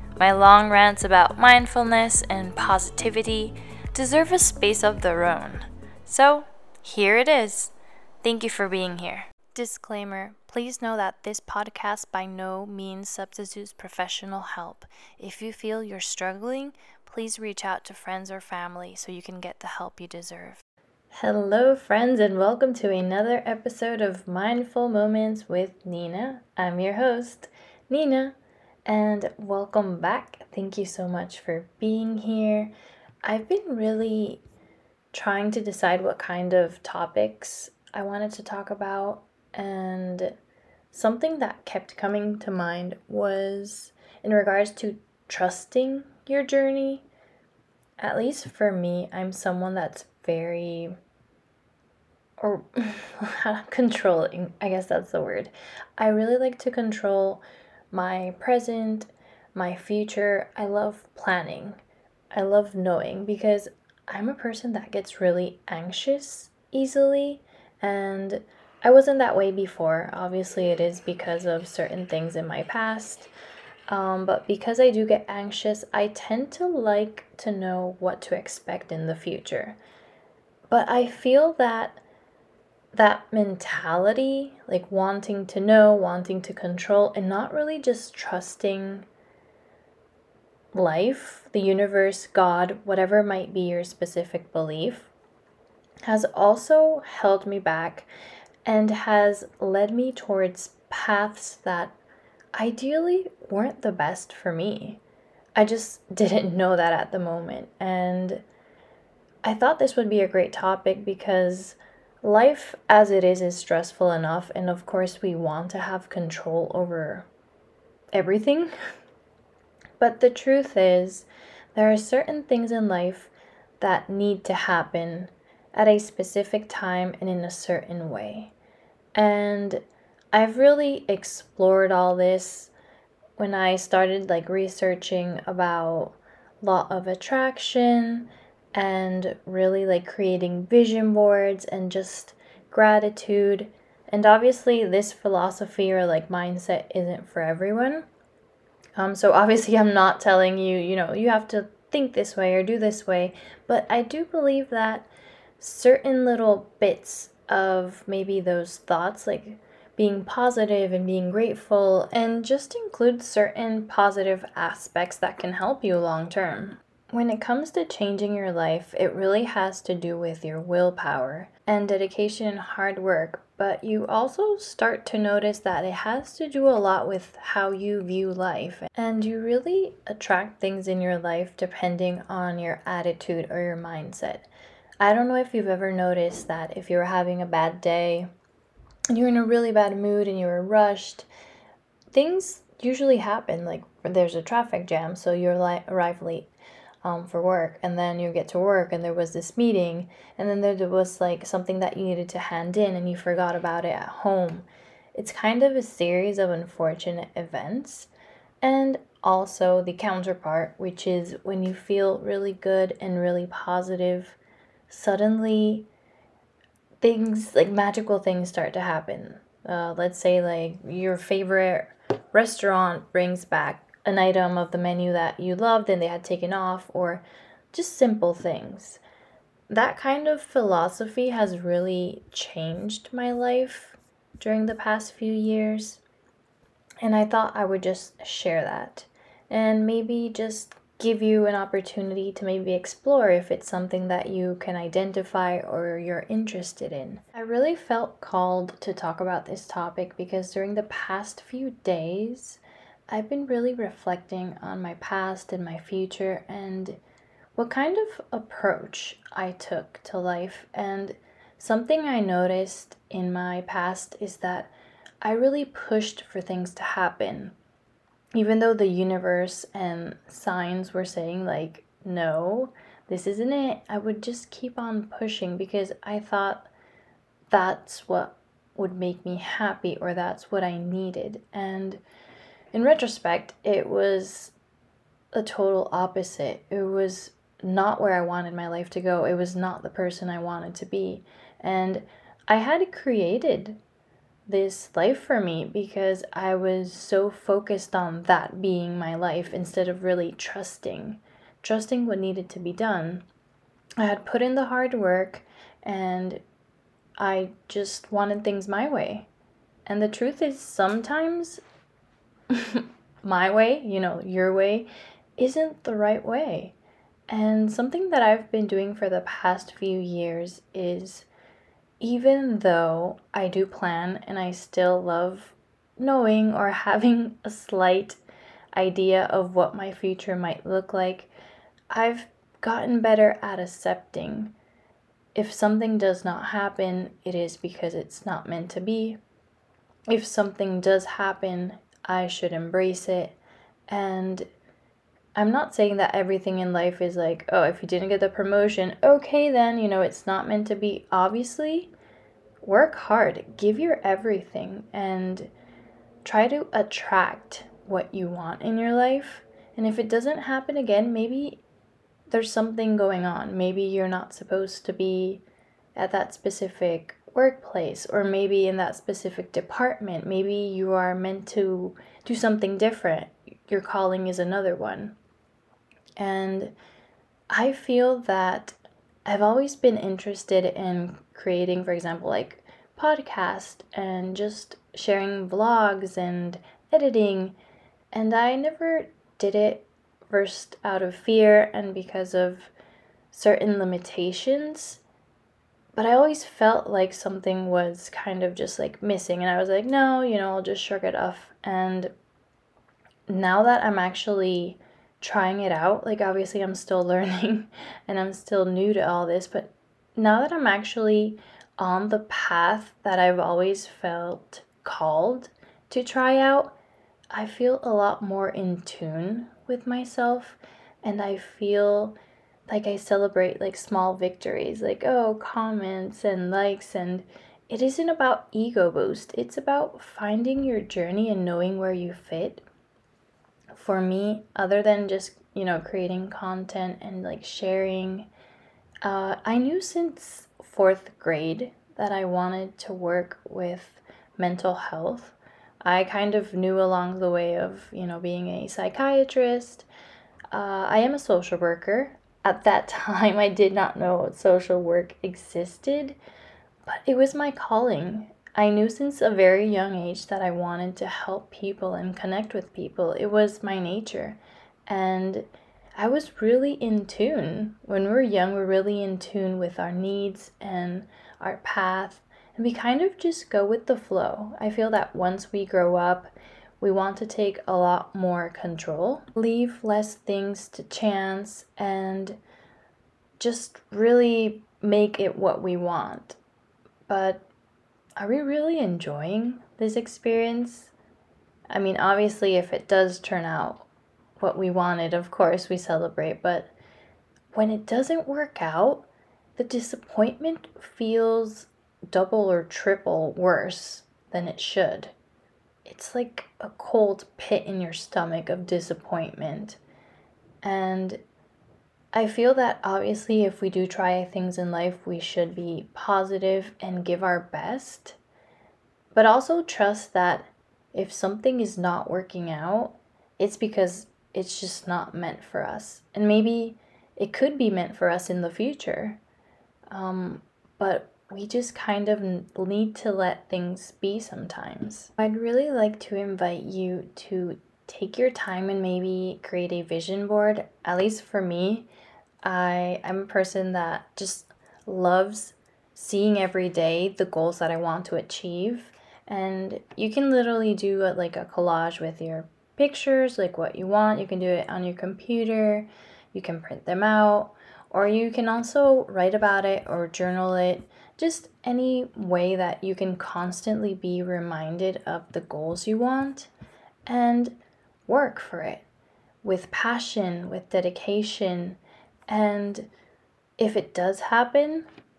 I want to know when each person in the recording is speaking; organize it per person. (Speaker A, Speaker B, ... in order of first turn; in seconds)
Speaker A: 0.2-28.3, 28.9-32.7, 33.2-34.4, 35.1-40.3, 40.9-47.0, 48.0-50.9, 52.4-61.8, 62.3-73.3, 73.9-79.8, 80.7-82.0, 82.9-89.1, 90.7-95.1, 96.0-98.1, 98.7-102.0, 102.5-105.0, 105.5-108.4, 109.4-117.3, 118.1-118.7, 120.0-128.5, 129.1-132.7, 133.4-148.1, 149.0-155.1, 155.6-184.5, 185.0-188.3, 189.1-191.3, 192.1-196.5, 197.0-208.1, 208.6-214.4, 214.9-215.9, 217.0-229.0, 229.7-236.0, 237.0-257.0, 257.6-267.5, 268.3-276.7, 277.5-282.0, 282.7-284.5, 285.3-293.8, 294.5-303.2, 304.0-306.4, 307.2-309.3, 309.9-311.6, 312.5-316.8, 317.3-321.3, 322.0-328.2, 328.7-331.3, 331.9-334.5, 335.3-339.2, 340.1-343.4, 343.9-344.5, 345.3-351.9, 352.6-355.5, 356.2-361.6, 362.3-365.4, 365.9-375.1, 376.2-376.8, 377.5-387.6, 388.1-392.7, 393.3-395.0, 395.9-402.1, 403.3-416.8, 417.3-422.1, 422.7-432.6, 433.7-438.3, 439.0-449.9, 450.5-456.2, 456.8-482.4, 483.4-486.4, 487.1-487.4, 488.2-490.9, 491.7-493.9, 494.4-496.7, 497.5-505.1, 505.8-509.8, 510.6-511.2, 512.1-518.2, 519.1-529.2, 529.9-541.9, 542.4-566.5, 567.1-568.8, 569.4-572.9, 573.6-574.9